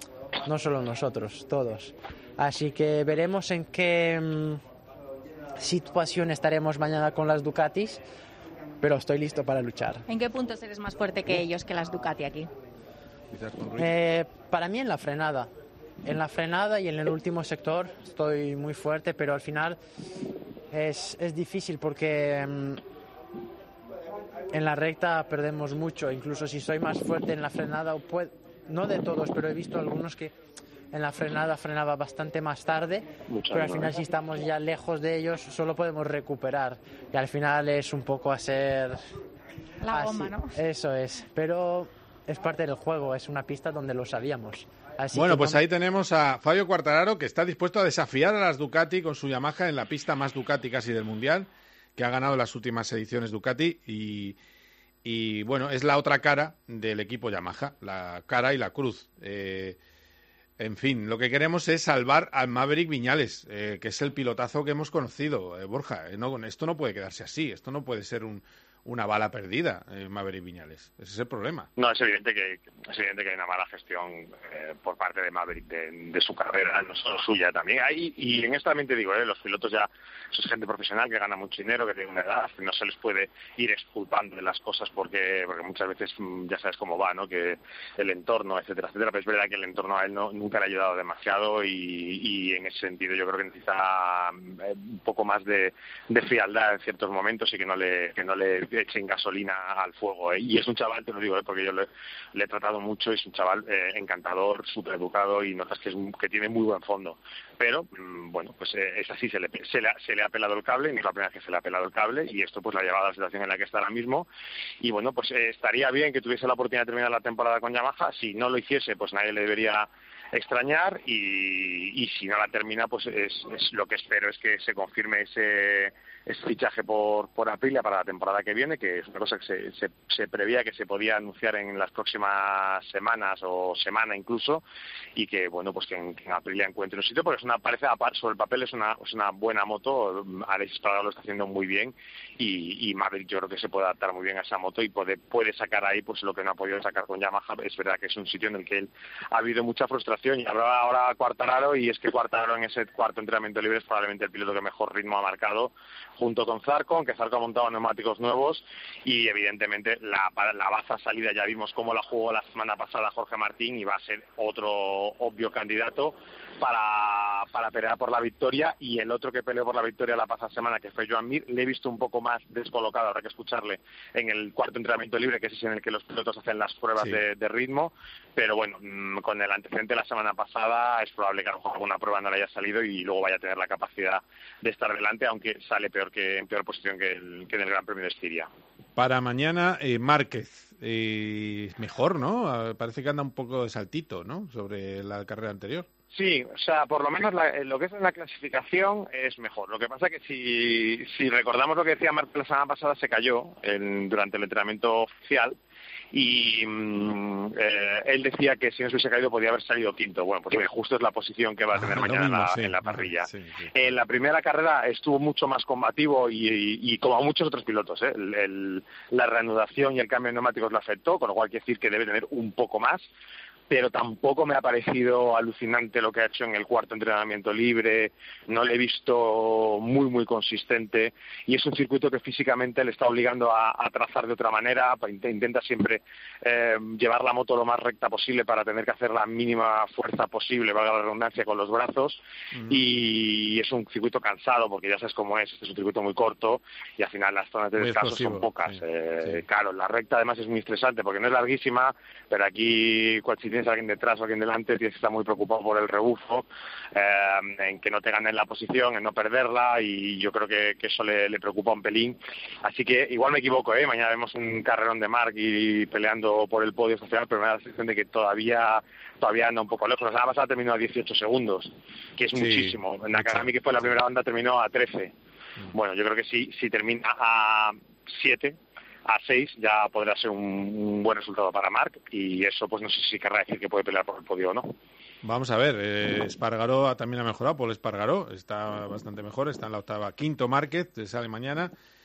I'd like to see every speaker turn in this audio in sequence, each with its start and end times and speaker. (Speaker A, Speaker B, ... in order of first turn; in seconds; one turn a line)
Speaker A: 0.4-4.6
Speaker A: 5.6-8.0
Speaker A: 8.8-10.0
Speaker B: 10.1-12.5
Speaker A: 13.7-15.5
Speaker A: 16.0-19.8
Speaker A: 20.7-22.8
Speaker A: 24.5-30.3
Speaker A: 30.9-39.1
Speaker C: 33.3-33.9
Speaker B: 39.8-40.5
Speaker A: 39.9-45.6
Speaker D: 45.1-54.4
Speaker D: 55.0-59.8
Speaker D: 60.6-71.7
Speaker C: 71.8-114.3
Speaker C: 114.8-134.6
Speaker C: 135.2-188.5
Speaker D: 188.9-195.9
Speaker C: 196.1-205.5
Speaker C: 206.1-223.1
Speaker D: 211.7-213.7
Speaker C: 223.7-275.1
Speaker D: 242.5-242.8
Speaker D: 247.8-249.4
Speaker D: 272.3-273.9
Speaker C: 275.7-284.7
Speaker D: 285.2-291.7